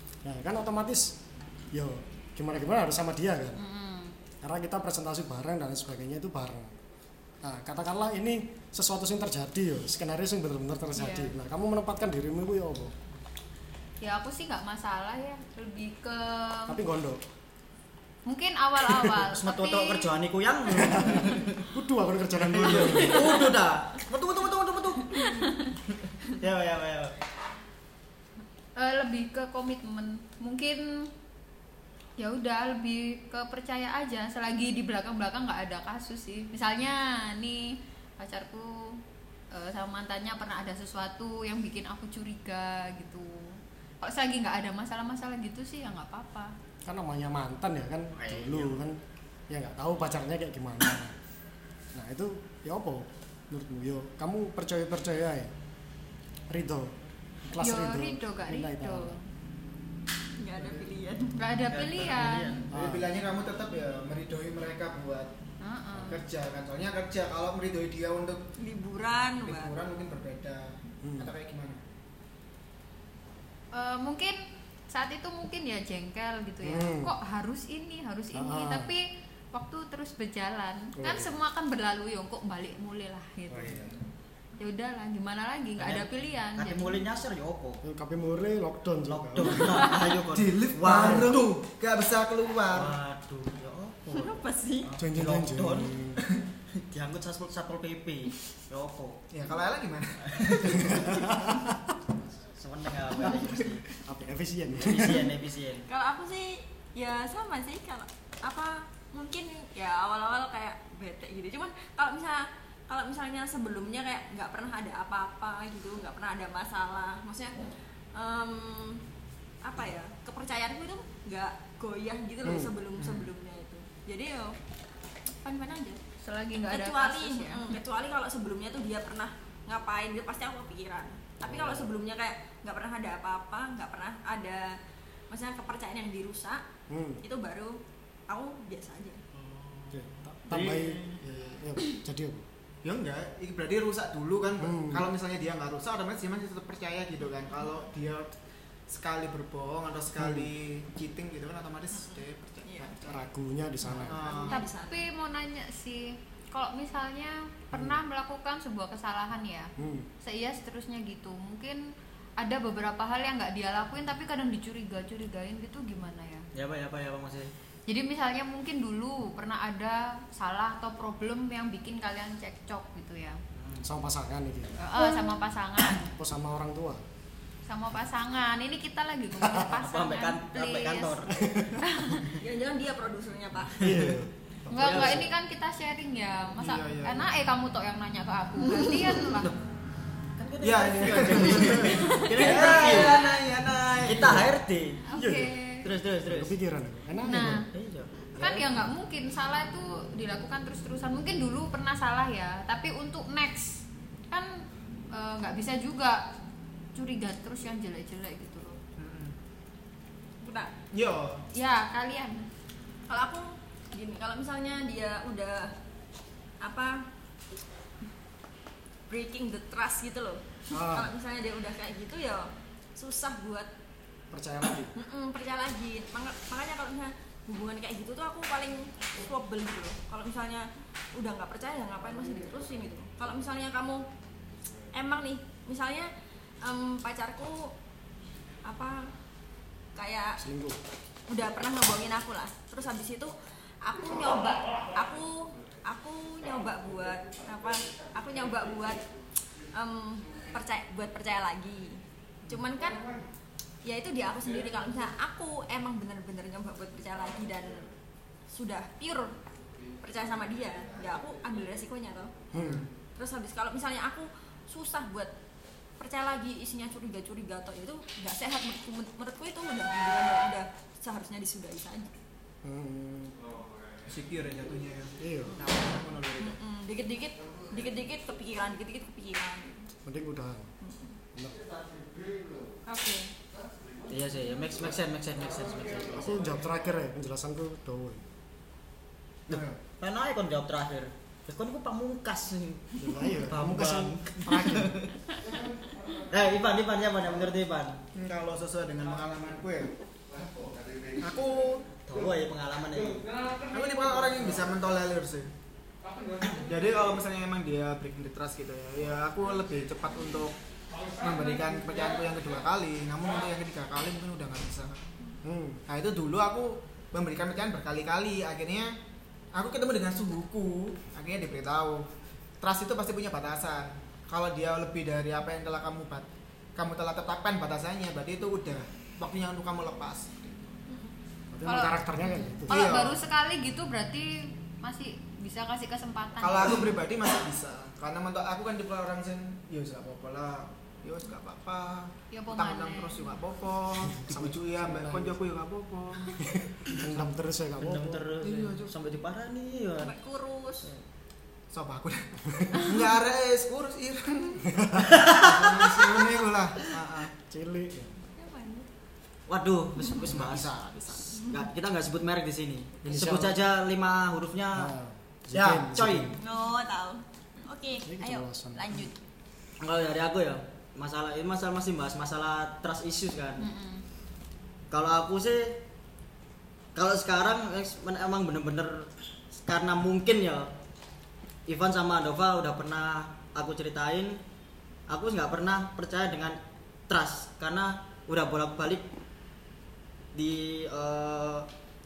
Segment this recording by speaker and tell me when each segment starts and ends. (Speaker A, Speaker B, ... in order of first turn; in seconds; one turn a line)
Speaker A: 0.2-1.1
Speaker A: 1.7-3.6
Speaker B: 3.6-4.2
Speaker A: 4.4-6.7
Speaker A: 7.4-12.9
Speaker B: 10.9-11.3
Speaker B: 14.0-16.8
Speaker A: 16.7-17.2
Speaker B: 18.3-20.1
Speaker A: 18.9-19.2
Speaker C: 19.3-21.7
Speaker A: 20.7-23.4
Speaker C: 22.5-25.3
Speaker D: 22.7-23.0
Speaker C: 26.2-27.1
Speaker B: 28.8-31.1
Speaker B: 32.2-39.0
Speaker B: 39.5-46.5
Speaker A: 46.8-51.1
Speaker C: 48.1-48.8
Speaker A: 51.9-55.5
Speaker A: 56.5-59.1
Speaker B: 57.6-59.2
Speaker E: 60.4-61.4
Speaker B: 61.4-62.6
Speaker C: 61.7-62.7
Speaker A: 62.7-63.1
Speaker D: 62.7-65.3
Speaker B: 65.6-66.2
Speaker D: 66.0-68.4
Speaker E: 68.6-69.7
Speaker D: 69.4-71.8
Speaker A: 71.0-71.3
Speaker B: 73.7-83.9
Speaker A: 76.6-77.1
Speaker A: 78.3-78.9
Speaker A: 81.0-81.4
Speaker A: 83.5-83.9
Speaker B: 84.6-87.0
Speaker C: 85.8-87.8
Speaker A: 87.8-89.8
Speaker C: 89.1-91.5
Speaker D: 90.3-93.0
Speaker C: 92.7-95.9
Speaker E: 94.1-94.9
Speaker A: 95.0-96.2
Speaker C: 96.8-99.2
Speaker D: 99.3-101.3
Speaker A: 100.7-101.9
Speaker C: 102.4-103.9
Speaker A: 103.3-105.3
Speaker C: 104.7-105.8
Speaker E: 105.9-119.0
Speaker E: 119.6-124.6
Speaker A: 122.4-122.7
Speaker C: 123.0-123.3
Speaker E: 125.4-126.0
Speaker B: 126.1-127.7
Speaker E: 126.7-134.8
Speaker A: 131.4-131.9
Speaker E: 135.3-136.6
Speaker A: 136.9-137.2
Speaker E: 137.2-137.8
Speaker E: 138.3-139.2
Speaker D: 139.3-141.6
Speaker A: 139.9-142.4
Speaker C: 140.7-141.1
Speaker D: 142.8-148.3
Speaker A: 144.6-145.1
Speaker D: 148.9-153.2
Speaker A: 150.2-150.5
Speaker E: 151.9-152.9
Speaker A: 153.0-154.3
Speaker D: 153.9-154.6
Speaker E: 154.0-155.0
Speaker B: 154.5-161.9
Speaker A: 157.7-158.0
Speaker A: 159.8-160.1
Speaker B: 162.4-166.5
Speaker C: 166.5-167.5
Speaker B: 167.9-173.4
Speaker C: 173.5-173.8
Speaker A: 173.8-174.8
Speaker B: 174.8-176.1
Speaker A: 176.1-177.0
Speaker B: 177.7-181.2
Speaker A: 179.4-179.7
Speaker C: 179.8-181.5
Speaker A: 181.3-181.8
Speaker B: 181.8-182.3
Speaker E: 182.4-183.9
Speaker C: 183.8-184.1
Speaker A: 183.8-185.3
Speaker B: 184.7-189.5
Speaker C: 184.8-185.2
Speaker D: 186.6-187.3
Speaker C: 190.4-196.5
Speaker D: 190.6-194.4
Speaker A: 191.3-192.0
Speaker B: 191.9-193.4
Speaker A: 194.2-194.5
Speaker B: 195.1-195.9
Speaker A: 195.2-195.5
Speaker A: 196.2-197.6
Speaker B: 197.2-197.7
Speaker C: 197.7-198.9
Speaker B: 198.4-206.2
Speaker B: 206.9-208.8
Speaker D: 209.0-209.3
Speaker E: 210.4-210.7
Speaker D: 210.9-211.4
Speaker B: 211.5-212.4
Speaker E: 213.1-215.7
Speaker E: 216.6-217.0
Speaker E: 219.1-223.7
Speaker A: 220.7-221.1
Speaker A: 224.3-224.9
Speaker E: 224.9-234.0
Speaker E: 234.9-236.1
Speaker E: 236.6-237.7
Speaker E: 238.6-239.1
Speaker E: 239.9-240.4
Speaker A: 240.4-240.8
Speaker E: 241.3-249.0
Speaker E: 249.6-253.1
Speaker E: 253.8-257.9
Speaker E: 258.5-259.4
Speaker E: 260.0-262.5
Speaker A: 262.5-262.9
Speaker D: 262.5-262.9
Speaker E: 263.2-265.3
Speaker E: 266.0-272.2
Speaker A: 272.6-273.4
Speaker D: 274.1-276.6
Speaker A: 275.2-275.6
Speaker E: 276.4-279.9
Speaker A: 280.0-280.7
Speaker E: 280.8-281.1
Speaker A: 281.3-282.4
Speaker B: 282.9-283.3
Speaker C: 284.1-286.5
Speaker A: 286.0-288.2
Speaker D: 289.5-289.8
Speaker C: 289.5-295.1
Speaker A: 293.0-296.2
Speaker C: 296.3-298.0
Speaker D: 298.1-299.9
Speaker D: 301.2-301.9
Speaker C: 302.0-303.3
Speaker D: 303.7-305.5
Speaker D: 306.4-310.6
Speaker D: 311.2-315.0
Speaker A: 315.4-315.8
Speaker D: 315.9-318.9
Speaker D: 319.5-322.1
Speaker D: 322.6-330.8
Speaker E: 330.9-331.1
Speaker A: 331.5-333.0
Speaker B: 331.6-336.9
Speaker D: 332.7-333.2
Speaker D: 336.4-347.2
Speaker B: 342.3-343.4
Speaker A: 344.1-345.4
Speaker A: 346.4-348.2
Speaker C: 347.8-350.1
Speaker D: 348.4-348.9
Speaker E: 350.0-350.9
Speaker D: 351.7-354.8
Speaker A: 354.6-355.2
Speaker C: 355.0-355.9
Speaker D: 355.3-357.3
Speaker A: 357.5-358.1
Speaker E: 358.3-358.9
Speaker C: 359.5-360.7
Speaker D: 360.2-361.4
Speaker C: 361.4-364.9
Speaker A: 363.0-363.6
Speaker A: 364.7-366.4
Speaker D: 365.5-365.9
Speaker C: 365.8-366.3
Speaker E: 366.4-369.2
Speaker A: 368.1-369.1
Speaker C: 369.8-373.7
Speaker B: 373.6-374.0
Speaker C: 374.9-375.8
Speaker C: 376.9-380.7
Speaker C: 381.7-384.4
Speaker C: 385.1-386.6
Speaker C: 387.1-389.0
Speaker C: 390.3-391.7